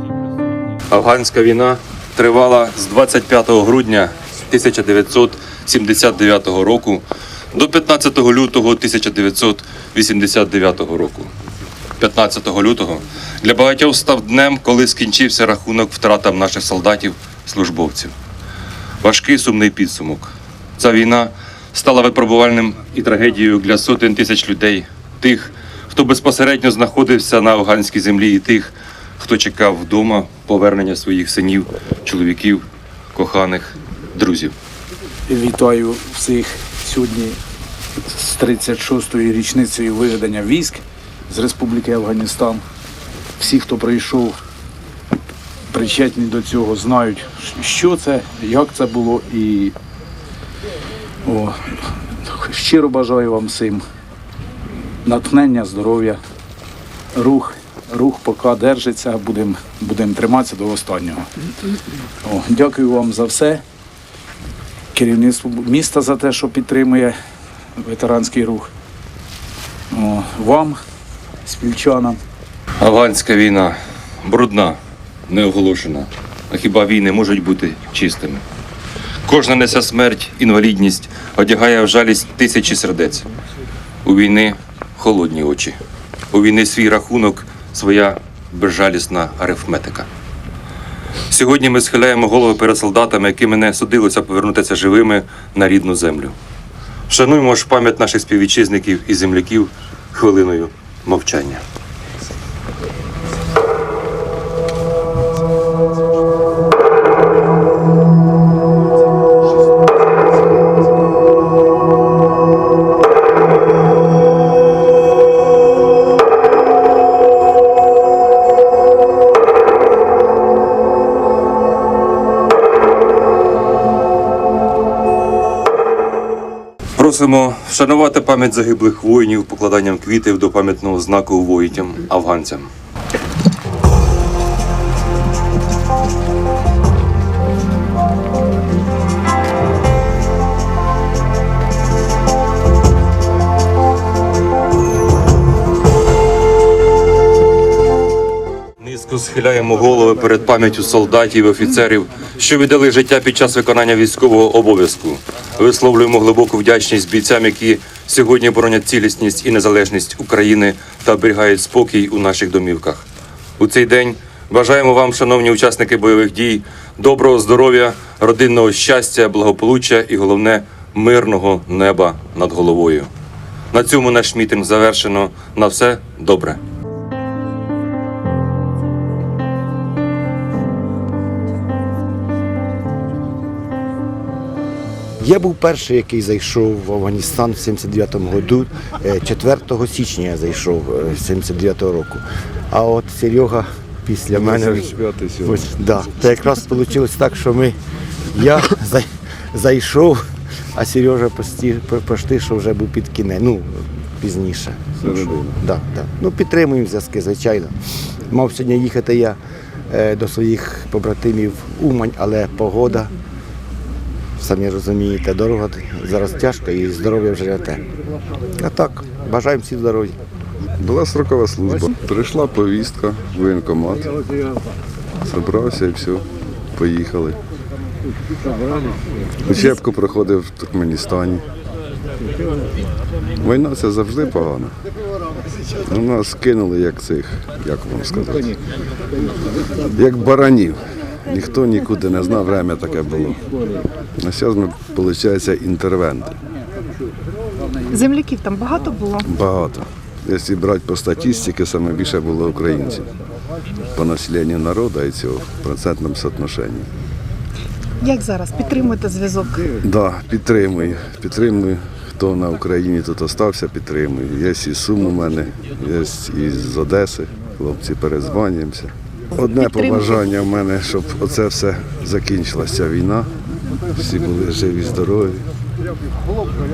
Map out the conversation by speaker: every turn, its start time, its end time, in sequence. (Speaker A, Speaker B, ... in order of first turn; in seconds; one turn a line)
Speaker A: 0.9-11.3
Speaker A: 12.0-18.1
Speaker A: 19.0-32.6
Speaker A: 33.1-34.5
Speaker B: 35.3-37.4
Speaker B: 38.0-42.6
Speaker B: 43.4-44.3
Speaker B: 45.7-49.7
Speaker B: 51.2-53.8
Speaker B: 55.0-56.2
Speaker B: 57.1-61.3
Speaker B: 62.2-63.6
Speaker B: 64.9-67.1
Speaker B: 67.8-68.7
Speaker B: 69.9-70.8
Speaker B: 71.4-72.2
Speaker A: 72.8-78.4
Speaker A: 79.3-83.2
Speaker A: 84.0-85.8
Speaker A: 86.3-90.1
Speaker A: 91.3-96.3
Speaker A: 97.1-101.6
Speaker A: 127.0-132.7
Speaker A: 148.8-163.1
Speaker A: 163.6-173.1
Speaker A: 173.7-176.6
Speaker C: 185.2-194.9
Speaker D: 194.3-195.6
Speaker C: 195.4-197.8
Speaker C: 198.3-200.2
Speaker C: 200.7-207.7
Speaker D: 204.9-205.6
Speaker C: 208.3-209.4
Speaker C: 209.9-213.1
Speaker C: 214.4-217.8
Speaker C: 218.6-220.1
Speaker D: 220.8-224.2
Speaker D: 225.2-227.4
Speaker D: 229.4-231.4
Speaker D: 233.4-234.7
Speaker D: 235.8-238.6
Speaker D: 239.9-243.4
Speaker D: 244.2-246.4
Speaker E: 247.9-249.2
Speaker D: 249.3-253.1
Speaker D: 253.9-256.9
Speaker E: 258.0-259.6
Speaker D: 259.8-273.3
Speaker E: 269.6-270.0
Speaker D: 273.9-275.4